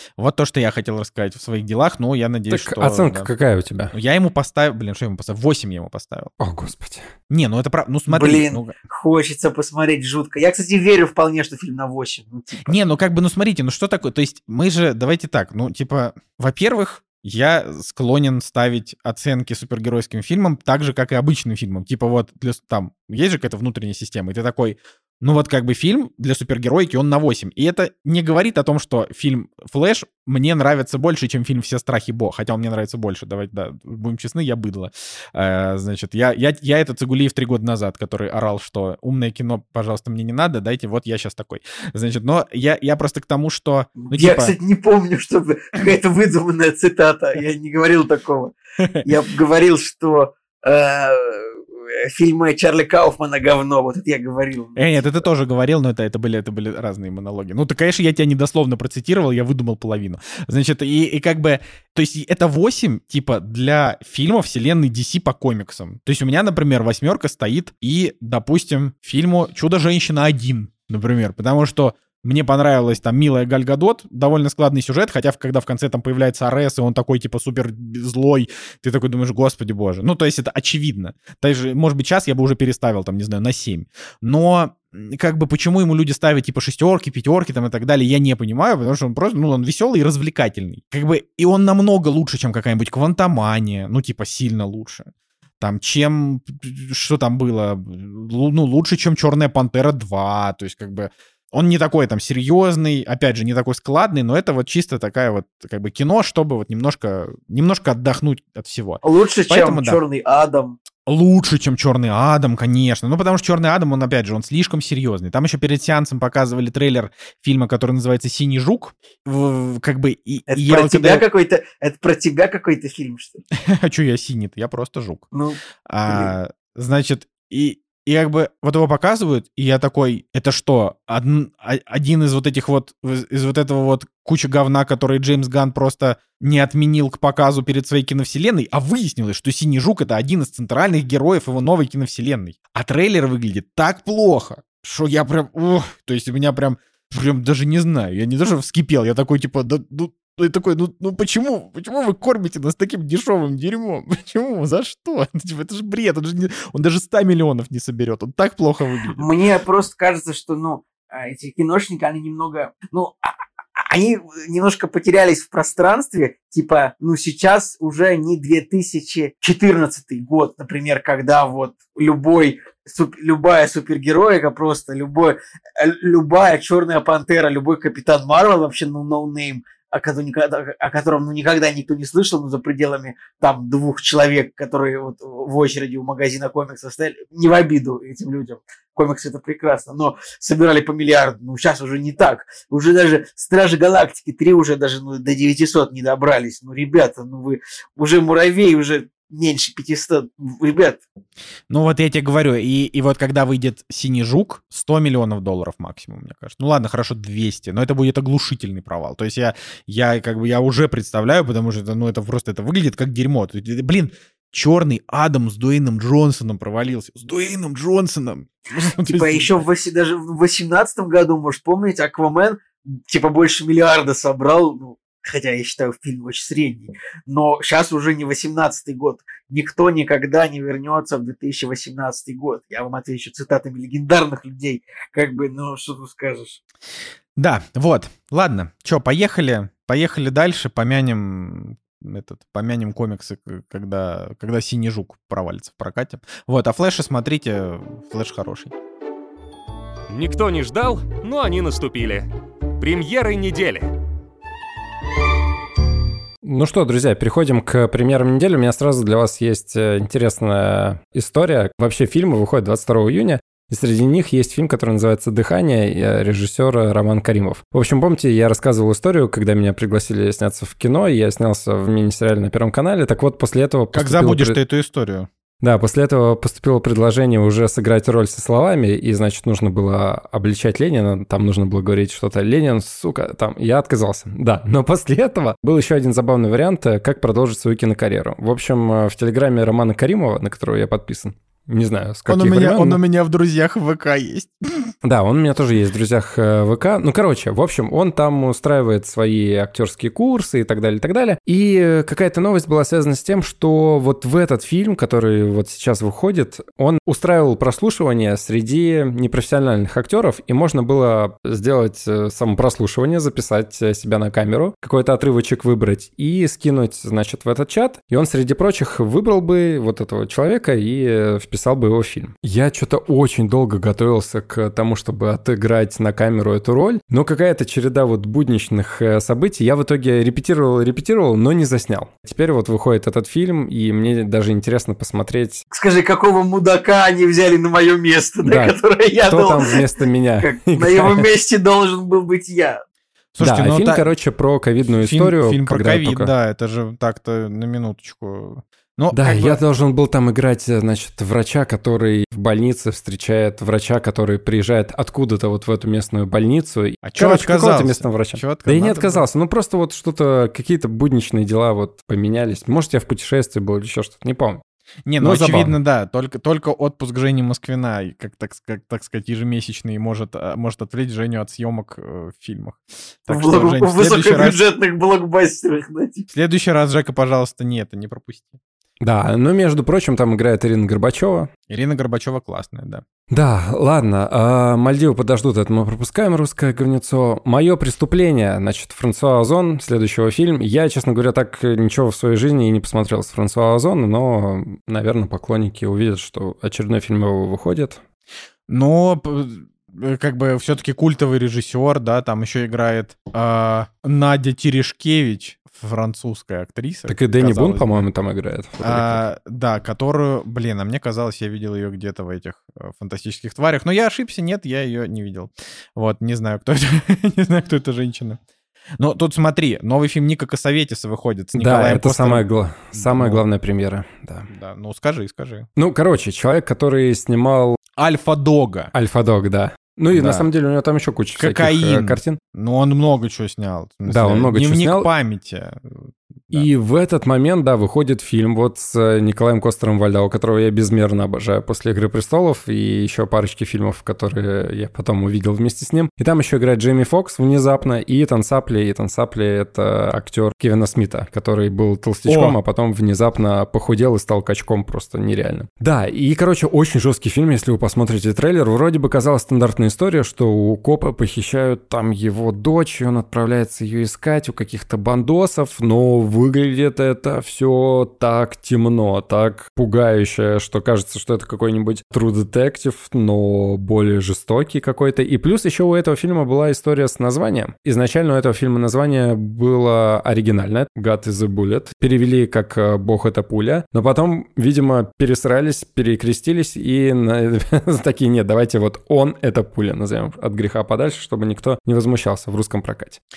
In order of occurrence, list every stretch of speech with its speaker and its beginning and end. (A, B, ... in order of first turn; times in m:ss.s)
0:00.2-0:03.3 A
0:02.5-0:03.9 B
0:03.9-0:06.3 A
0:06.4-0:07.1 B
0:07.3-0:08.7 A
0:08.1-0:12.8 C
0:12.7-0:44.5 A
0:44.0-0:55.2 C
0:54.8-1:50.0 A
1:49.0-1:50.8 C
1:51.0-2:01.2 A
2:00.5-2:03.4 C
2:03.6-2:05.3 A
2:05.3-2:06.3 C
2:05.9-2:39.3 A
2:39.1-3:21.0 C
3:21.7-3:39.6 A
3:39.0-3:56.6 C
3:57.4-4:08.7 A
4:10.1-4:12.3 D
4:12.8-4:13.9 D
4:16.4-4:34.6 B
4:33.9-4:35.3 A
4:35.6-4:53.0 B
4:52.3-4:54.9 A
4:55.0-5:35.6 B
5:35.7-5:39.8 C
5:38.4-5:41.3 B
5:40.4-5:42.8 C
5:43.4-5:44.0 A
5:43.4-5:46.3 B
5:45.0-5:49.6 A
5:49.1-6:04.6 B
5:57.0-5:59.2 A
6:05.1-6:14.6 A
6:05.2-6:05.8 B
6:13.3-6:16.3 C
6:16.3-6:18.6 A
6:19.0-6:21.5 B
6:21.7-6:23.0 A
6:23.3-6:38.0 B
6:38.7-6:48.0 A
6:47.1-6:49.2 B
6:48.8-6:58.4 A
6:59.0-7:03.4 A
7:01.6-7:04.5 B
7:04.5-7:05.7 A
7:05.8-7:07.8 B
7:08.0-7:08.9 A
7:08.9-7:12.4 B
7:10.1-7:10.5 A
7:11.4-7:16.7 A
7:14.1-7:15.1 B
7:16.5-8:13.2 B
7:32.3-7:32.6 A